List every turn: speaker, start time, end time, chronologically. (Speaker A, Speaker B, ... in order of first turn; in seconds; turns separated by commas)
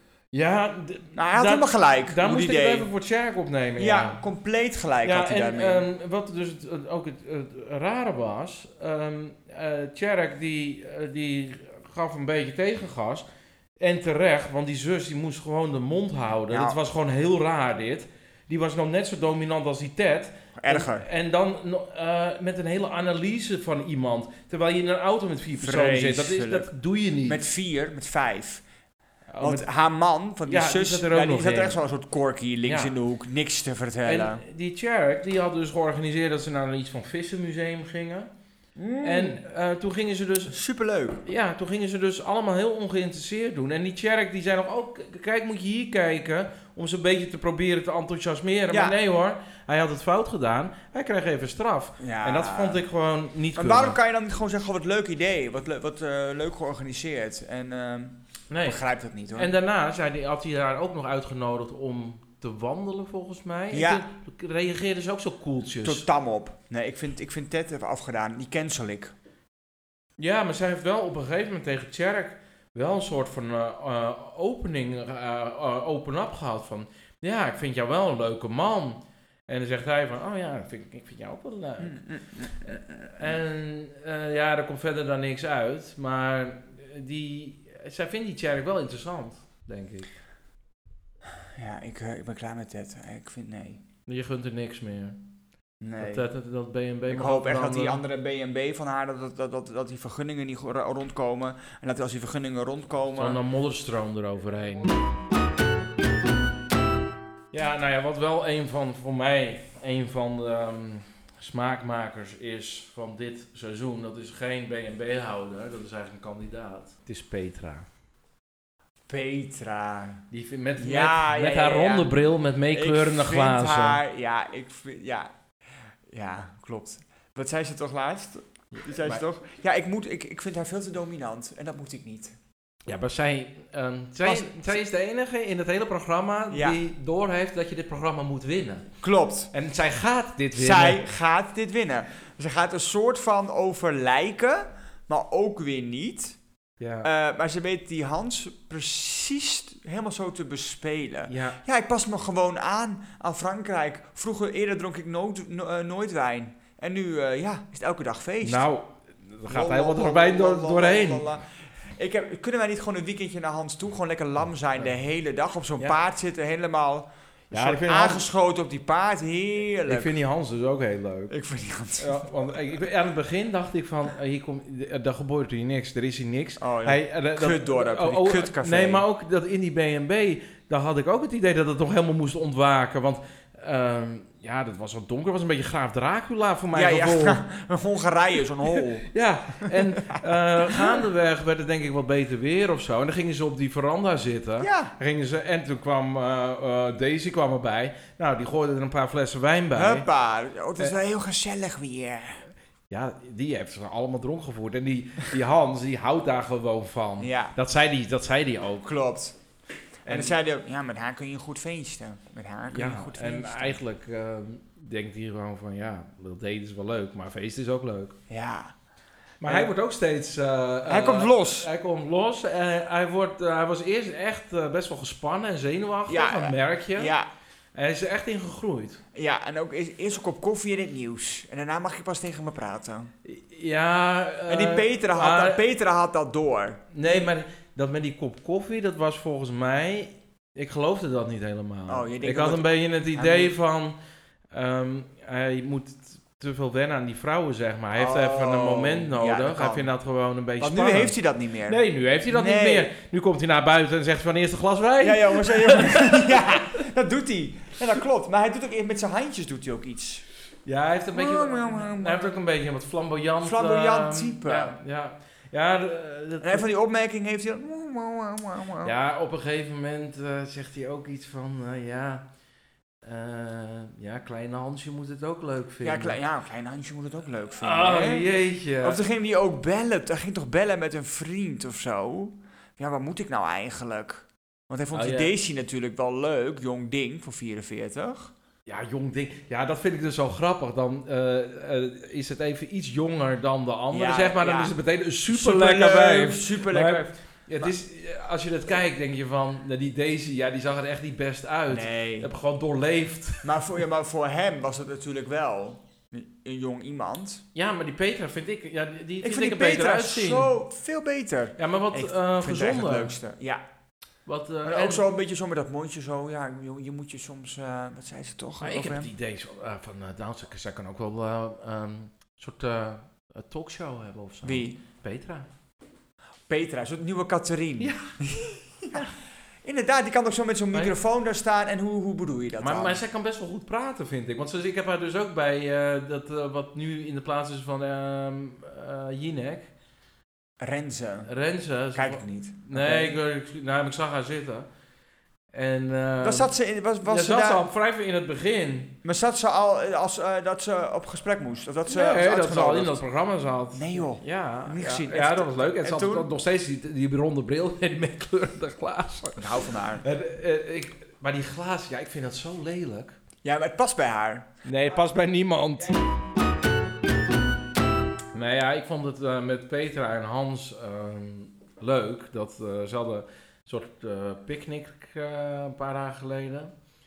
Speaker A: 0.3-4.2, Speaker B: 1.1-2.9, Speaker B: 3.8-5.9, Speaker A: 5.0-13.3, Speaker A: 13.8-27.4, Speaker B: 16.5-16.8, Speaker B: 20.6-21.1, Speaker B: 25.6-26.7, Speaker B: 27.2-28.6, Speaker A: 29.3-29.7, Speaker B: 29.4-34.4, Speaker A: 30.4-31.8, Speaker A: 32.7-32.9, Speaker A: 34.0-38.3, Speaker B: 38.8-39.4, Speaker A: 39.0-40.6, Speaker B: 40.5-41.2, Speaker A: 41.2-54.0, Speaker B: 48.7-49.0, Speaker B: 52.0-52.8, Speaker B: 53.6-59.5, Speaker A: 58.5-58.8, Speaker A: 59.4-66.0, Speaker B: 63.7-64.0, Speaker B: 65.8-69.1, Speaker A: 70.2-82.0, Speaker B: 81.8-83.4, Speaker A: 83.2-90.1, Speaker B: 91.5-93.8, Speaker A: 94.1-95.2, Speaker B: 95.8-96.3, Speaker A: 96.0-98.0, Speaker B: 97.1-103.4, Speaker A: 103.2-104.9, Speaker A: 107.5-117.9, Speaker B: 119.1-120.2, Speaker A: 120.3-124.0, Speaker B: 120.8-122.1, Speaker B: 122.7-125.3, Speaker B: 126.1-132.4, Speaker A: 128.7-129.2, Speaker A: 132.9-138.9, Speaker B: 134.2-134.8, Speaker B: 136.5-136.8, Speaker B: 139.0-139.5, Speaker A: 139.5-141.0, Speaker B: 140.6-146.4, Speaker A: 146.8-147.1, Speaker B: 147.0-158.7, Speaker A: 151.3-151.6, Speaker A: 158.4-161.2, Speaker B: 159.5-170.1, Speaker A: 167.5-168.2, Speaker A: 169.9-171.3, Speaker B: 171.3-172.2, Speaker A: 172.0-187.4, Speaker B: 176.6-179.1, Speaker B: 186.7-189.1, Speaker A: 188.8-200.1, Speaker B: 189.6-191.1, Speaker B: 194.6-194.9, Speaker B: 199.7-202.4, Speaker A: 202.9-208.9, Speaker B: 207.2-207.6, Speaker B: 208.8-209.4, Speaker A: 210.1-210.4, Speaker B: 210.1-213.8, Speaker A: 212.7-218.2, Speaker B: 218.3-218.8, Speaker A: 219.4-227.1, Speaker B: 219.4-219.7, Speaker B: 220.8-221.7, Speaker B: 226.1-227.3, Speaker A: 227.8-229.0, Speaker B: 229.1-233.1, Speaker A: 233.2-235.6, Speaker B: 234.5-237.3, Speaker A: 236.9-244.0, Speaker B: 241.9-243.6, Speaker A: 244.5-251.1, Speaker B: 247.9-249.9, Speaker B: 250.6-252.9, Speaker A: 251.7-256.8, Speaker B: 255.0-260.2, Speaker A: 260.7-266.6, Speaker B: 261.1-262.3, Speaker B: 263.4-264.8, Speaker B: 266.4-268.9, Speaker A: 268.8-272.2, Speaker A: 273.0-276.2, Speaker B: 275.8-288.3, Speaker A: 277.6-279.0, Speaker A: 284.9-285.3, Speaker A: 288.7-303.6, Speaker B: 293.9-294.7, Speaker B: 295.3-297.7, Speaker B: 301.7-302.3, Speaker B: 303.4-307.4, Speaker A: 307.6-310.5, Speaker B: 309.2-313.6, Speaker A: 311.6-313.2, Speaker A: 314.3-315.0, Speaker B: 314.6-319.1, Speaker A: 318.6-325.5, Speaker B: 324.4-324.8, Speaker B: 326.5-329.0, Speaker A: 327.8-328.4, Speaker B: 329.6-333.0, Speaker A: 332.6-339.7, Speaker B: 340.6-341.3, Speaker A: 341.3-344.7, Speaker B: 341.9-343.2, Speaker A: 345.5-346.5, Speaker B: 346.2-347.6, Speaker A: 347.0-349.0, Speaker B: 349.0-353.0, Speaker A: 351.9-363.2, Speaker B: 353.7-356.3, Speaker B: 359.4-360.1, Speaker B: 363.4-364.5, Speaker A: 364.6-366.0, Speaker A: 368.3-376.7